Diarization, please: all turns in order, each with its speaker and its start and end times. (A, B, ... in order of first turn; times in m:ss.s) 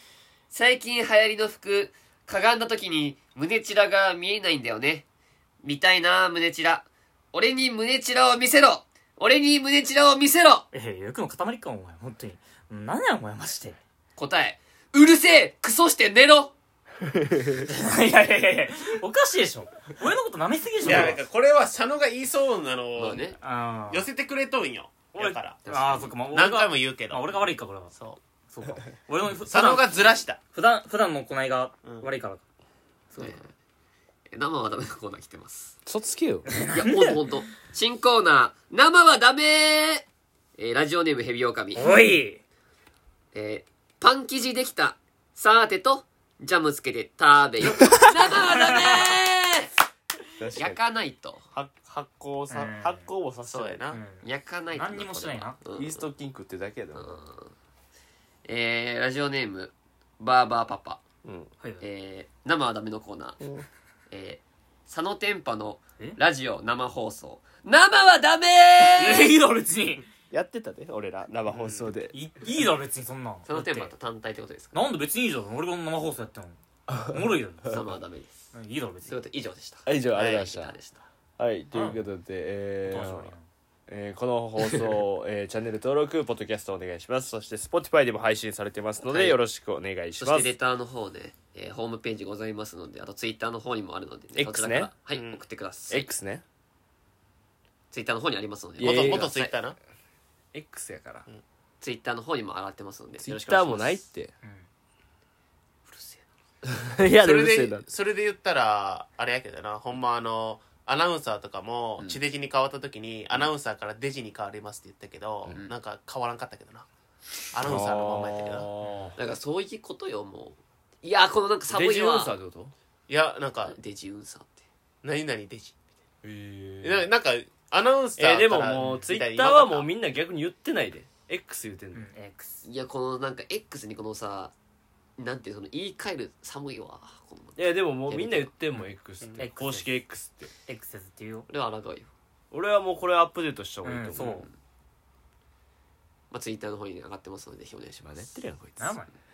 0:00.5-0:05.0 A
0:05.6-0:10.7 A
0:10.7-0:13.8 B
0:14.2-0:16.5 A
0:17.6-0:21.2 B
0:20.8-0:23.4 C
0:22.9-0:23.4 A
0:23.4-0:24.1 B
0:23.9-0:25.6 C
0:25.1-0:27.9 B
0:25.6-0:26.2 A
0:26.3-0:28.2 C
0:28.5-0:30.0 B
0:29.5-0:30.4 C
0:30.5-0:32.4 B
0:31.8-0:32.1 C
0:33.1-0:33.4 B
0:33.2-0:33.5 A
0:34.3-0:35.8 A
0:35.9-0:36.5 D
0:36.5-0:37.1 B
0:36.7-0:40.0 A
0:40.6-0:41.9 A
0:41.8-0:42.4 B
0:43.3-0:49.7 A
0:48.4-0:49.2 B
0:50.4-0:50.8 D
0:50.6-0:51.4 A
0:51.5-0:53.9 D
0:52.5-0:53.0 B
0:53.5-0:54.0 C
0:53.9-0:55.6 B
0:54.2-0:56.1 A
0:55.8-0:57.2 D
0:56.9-0:57.5 A
0:58.4-1:01.0 A
1:01.2-1:01.5 D
1:01.8-1:03.4 A
1:03.4-1:03.6 D
1:04.1-1:09.4 A
1:08.8-1:10.1 B
1:10.3-1:12.1 D
1:11.5-1:11.9 C
1:12.1-1:13.9 B
1:13.4-1:14.8 A
1:14.7-1:17.8 B
1:16.9-1:17.8 D
1:17.7-1:18.5 A
1:18.5-1:19.2 B
1:19.0-1:21.0 A
1:19.9-1:20.8 D
1:21.4-1:23.3 D
1:21.7-1:22.0 B
1:22.8-1:23.4 B
1:23.9-1:30.5 D
1:29.0-1:29.4 A
1:30.2-1:36.1 A
1:34.4-1:34.9 D
1:35.1-1:35.4 C
1:35.9-1:36.4 D
1:37.9-1:39.5 A
1:38.8-1:39.3 D
1:38.8-1:39.8 C
1:40.5-1:41.2 D
1:41.8-1:44.0 A
1:43.2-1:44.3 D
1:44.4-1:44.7 B
1:45.9-1:46.2 A
1:46.6-1:47.8 D
1:47.1-1:56.9 C
1:57.5-1:58.7 C
1:57.6-1:59.2 D
1:59.2-2:02.4 A
2:01.7-2:02.7 D
2:03.1-2:03.8 C
2:03.6-2:04.6 A
2:05.0-2:05.8 C
2:06.2-2:07.1 D
2:06.8-2:09.9 C
2:08.2-2:12.1 D
2:08.8-2:09.0 B
2:11.9-2:12.6 B
2:12.6-2:14.5 A
2:15.2-2:18.5 A
2:17.6-2:20.5 D
2:19.4-2:20.0 B
2:20.6-2:21.5 B
2:21.5-2:22.1 A
2:22.5-2:24.4 D
2:23.8-2:24.5 B
2:24.2-2:24.5 A
2:26.3-2:28.4 A
2:28.0-2:29.0 D
2:28.8-2:29.1 B